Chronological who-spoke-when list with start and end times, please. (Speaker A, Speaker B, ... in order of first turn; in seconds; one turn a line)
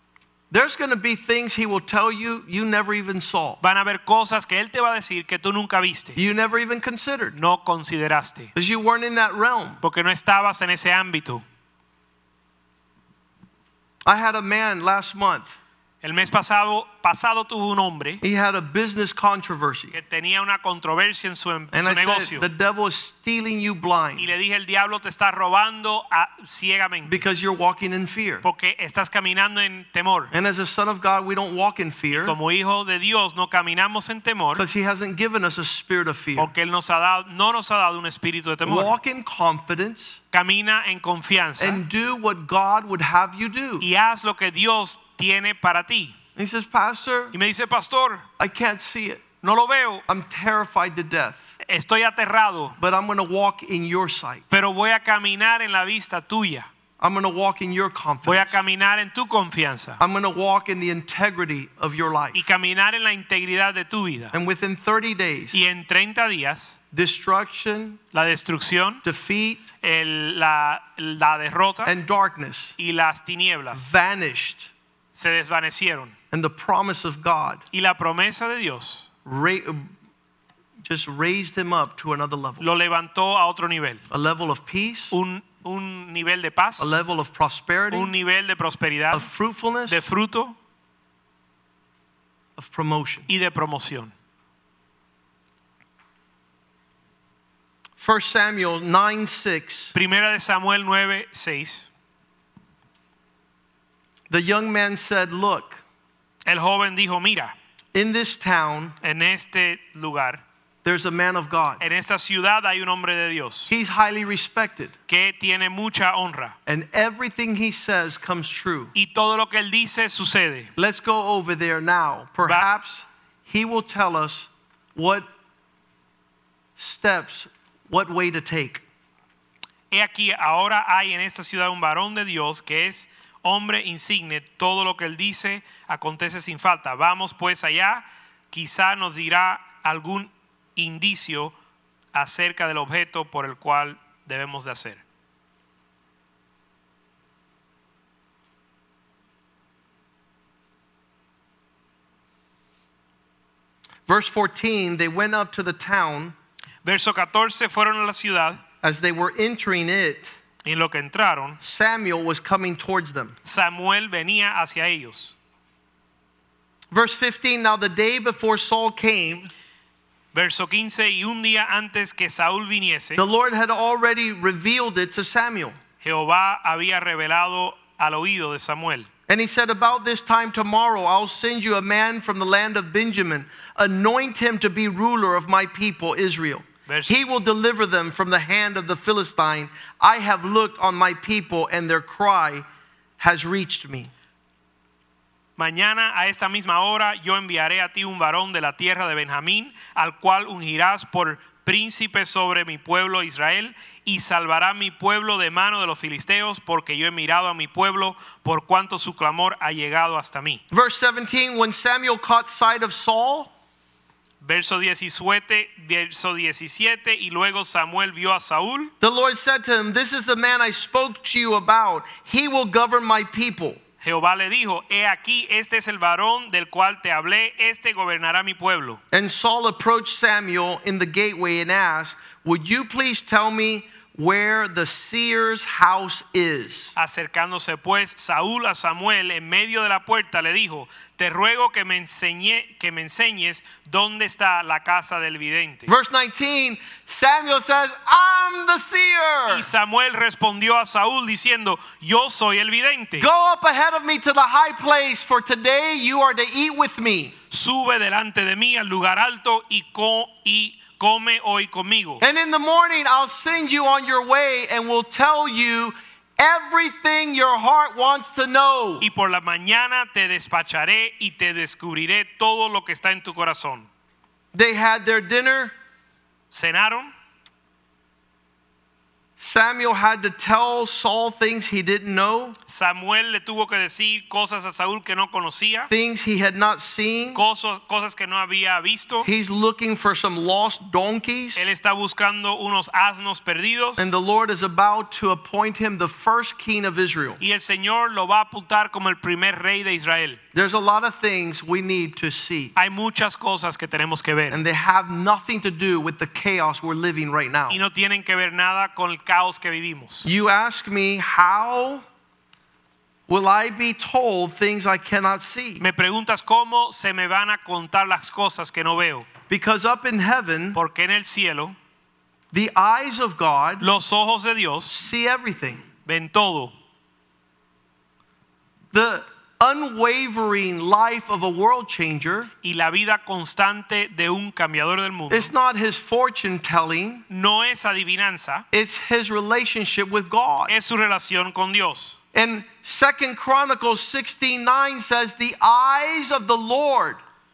Speaker A: 0.5-3.6
Speaker B: 3.6-6.2
Speaker A: 6.2-7.3
Speaker B: 7.3-8.5
Speaker A: 8.5-9.8
Speaker B: 9.8-11.4
Speaker A: 14.0-15.5
Speaker B: 16.0-18.2
Speaker A: 18.2-19.9
Speaker B: 19.9-22.4
Speaker A: 21.7-24.3
Speaker B: 24.2-27.2
Speaker A: 27.1-28.4
Speaker B: 28.4-30.3
Speaker A: 30.3-32.4
Speaker B: 32.1-34.6
Speaker A: 34.5-36.5
Speaker B: 36.4-38.9
Speaker A: 38.6-40.2
Speaker B: 40.3-41.8
Speaker A: 41.6-43.9
Speaker B: 43.8-46.1
Speaker A: 46.4-47.3
Speaker B: 47.3-48.2
Speaker A: 48.4-49.2
Speaker B: 49.4-50.0
Speaker A: 50.1-51.5
Speaker B: 51.6-52.8
Speaker A: 52.8-54.5
Speaker B: 54.5-56.7
Speaker A: 57.0-58.6
Speaker B: 58.2-60.0
Speaker A: 60.0-62.4
Speaker B: 62.3-64.3
Speaker A: 64.3-65.6
Speaker B: 65.5-66.8
Speaker A: 66.9-68.0
Speaker B: 68.1-69.0
Speaker A: 69.0-69.6
Speaker B: 69.8-71.9
Speaker A: 71.8-72.7
Speaker B: 72.8-73.9
Speaker A: 73.7-74.7
Speaker B: 75.1-76.1
Speaker A: 76.3-77.6
Speaker B: 77.7-79.1
Speaker A: 79.2-79.9
Speaker A: 80.8-82.6
Speaker B: 82.6-84.0
Speaker A: 84.1-85.1
Speaker B: 85.1-87.0
Speaker A: 86.8-88.1
Speaker B: 87.9-89.3
Speaker A: 89.1-90.0
Speaker B: 89.9-90.5
Speaker A: 92.6-93.3
Speaker B: 93.3-94.1
Speaker A: 98.0-99.9
Speaker B: 99.9-101.9
Speaker A: 104.3-105.8
Speaker B: 106.4-107.5
Speaker A: 107.9-109.0
Speaker B: 109.0-110.4
Speaker A: 110.8-111.8
Speaker B: 111.8-113.7
Speaker A: 113.7-114.9
Speaker B: 115.1-116.5
Speaker A: 116.7-118.9
Speaker B: 118.9-120.7
Speaker A: 120.8-125.3
Speaker A: 126.8-128.8
Speaker B: 129.9-141.5
Speaker B: 142.1-145.0
Speaker A: 154.1-156.3
Speaker B: 156.8-158.6
Speaker A: 158.8-160.3
Speaker B: 160.6-161.6
Speaker A: 161.6-163.3
Speaker B: 163.4-165.3
Speaker A: 166.9-169.5
Speaker B: 170.3-173.2
Speaker A: 173.2-175.7
Speaker B: 176.0-179.1
Speaker A: 179.3-192.6
Speaker B: 186.9-187.2
Speaker A: 193.2-194.1
Speaker B: 195.6-210.6
Speaker A: 210.7-213.5
Speaker B: 214.4-218.9
Speaker A: 219.0-223.8
Speaker B: 224.0-229.0
Speaker A: 229.1-236.9
Speaker B: 236.9-245.9
Speaker A: 245.9-249.7
Speaker B: 249.5-253.3
Speaker A: 253.2-257.3
Speaker B: 257.5-262.2
Speaker A: 262.2-269.1
Speaker B: 269.0-273.9
Speaker A: 274.5-275.7
Speaker B: 276.5-277.1
Speaker A: 279.4-282.6
Speaker B: 282.7-285.9
Speaker A: 285.9-287.4
Speaker B: 287.3-289.3
Speaker A: 289.2-291.6
Speaker B: 291.6-294.1
Speaker A: 294.0-297.4
Speaker B: 297.4-300.4
Speaker A: 300.5-302.7
Speaker B: 302.8-304.6
Speaker A: 304.5-307.8
Speaker B: 307.7-310.3
Speaker A: 310.2-312.0
Speaker A: 313.3-315.8
Speaker B: 315.8-319.3
Speaker A: 319.5-320.8
Speaker B: 320.7-321.8
Speaker A: 322.5-323.9
Speaker B: 323.8-324.9
Speaker A: 324.9-325.8
Speaker B: 326.1-326.7
Speaker A: 328.9-332.5
Speaker B: 332.6-335.5
Speaker A: 335.3-337.2
Speaker B: 337.3-338.6
Speaker A: 338.7-340.7
Speaker B: 340.7-342.2
Speaker A: 342.3-347.2